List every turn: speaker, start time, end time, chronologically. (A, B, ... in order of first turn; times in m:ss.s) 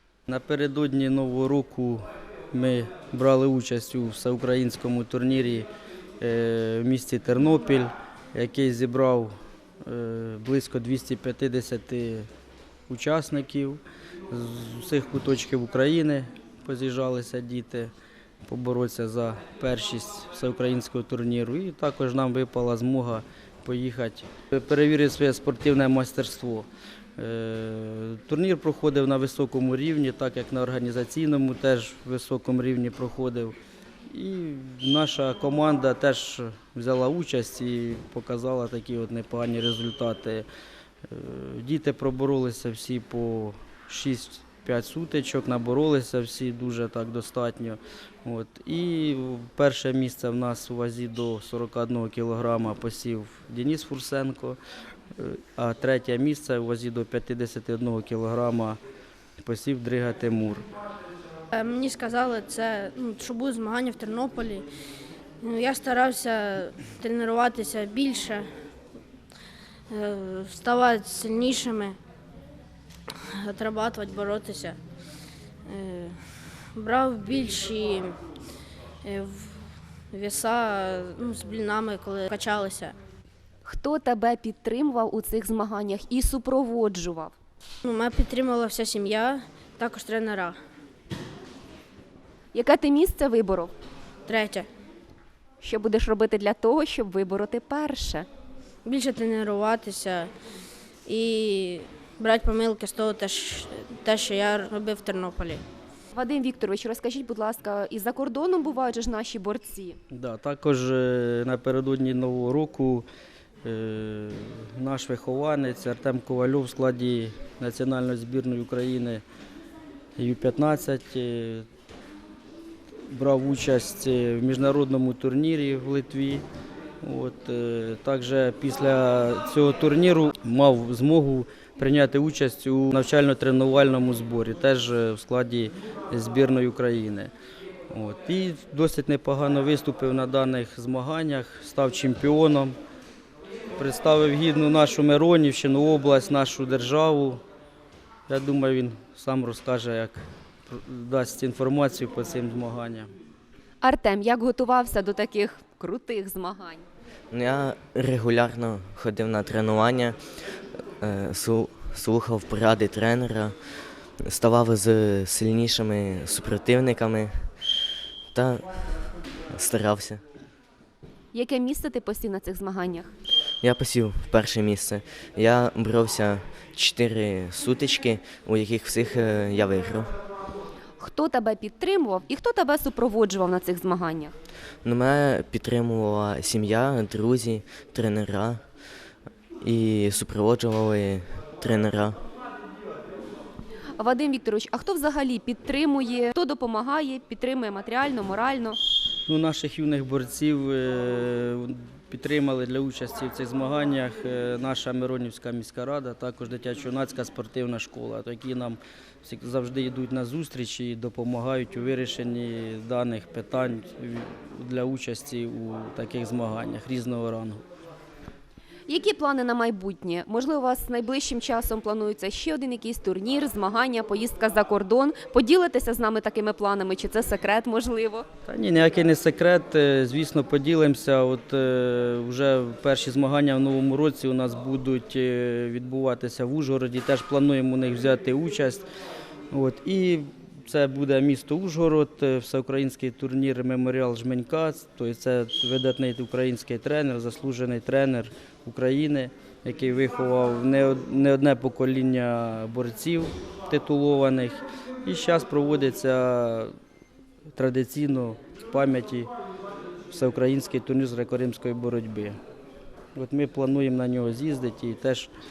0:00.3-0:05.7 A
0:06.2-0:12.3 A
0:12.9-0:17.9 A
0:18.5-0:33.6 A
0:34.1-0:40.5 A
0:41.1-0:54.6 A
0:55.2-0:58.8 A
0:59.4-1:00.7 A
1:01.5-1:04.6 B
1:05.4-1:08.5 B
1:09.9-1:12.0 B
1:13.3-1:14.8 B
1:15.7-1:16.2 B
1:16.8-1:18.1 B
1:19.0-1:22.9 B
1:23.6-1:27.4 C
1:27.8-1:30.6 B
1:32.5-1:33.7 C
1:34.3-1:34.7 B
1:35.6-1:38.3 C
1:38.8-1:40.3 B
1:41.1-1:45.6 B
1:46.1-1:50.0 C
1:50.1-1:53.1 A
1:53.6-1:59.2 A
2:00.2-2:01.7 A
2:03.1-2:06.4 A
2:07.0-2:17.3 A
2:17.9-2:22.8 A
2:23.8-2:27.4 A
2:28.3-2:33.1 A
2:33.8-2:36.9 C
2:37.3-2:40.2 D
2:41.0-2:43.6 D
2:44.2-2:47.5 D
2:48.3-2:50.2 D
2:51.3-2:53.1 C
2:53.6-3:00.1 D
3:01.0-3:04.3 C
3:04.8-3:08.6 D
3:09.6-3:12.2 D
3:14.0-3:18.8 C
3:19.3-3:37.6 A
3:38.9-3:48.3 C
3:48.5-3:58.9 A
3:59.5-4:16.7 A
4:17.6-4:19.3 A
4:20.1-4:22.4 A
4:23.2-4:25.3 A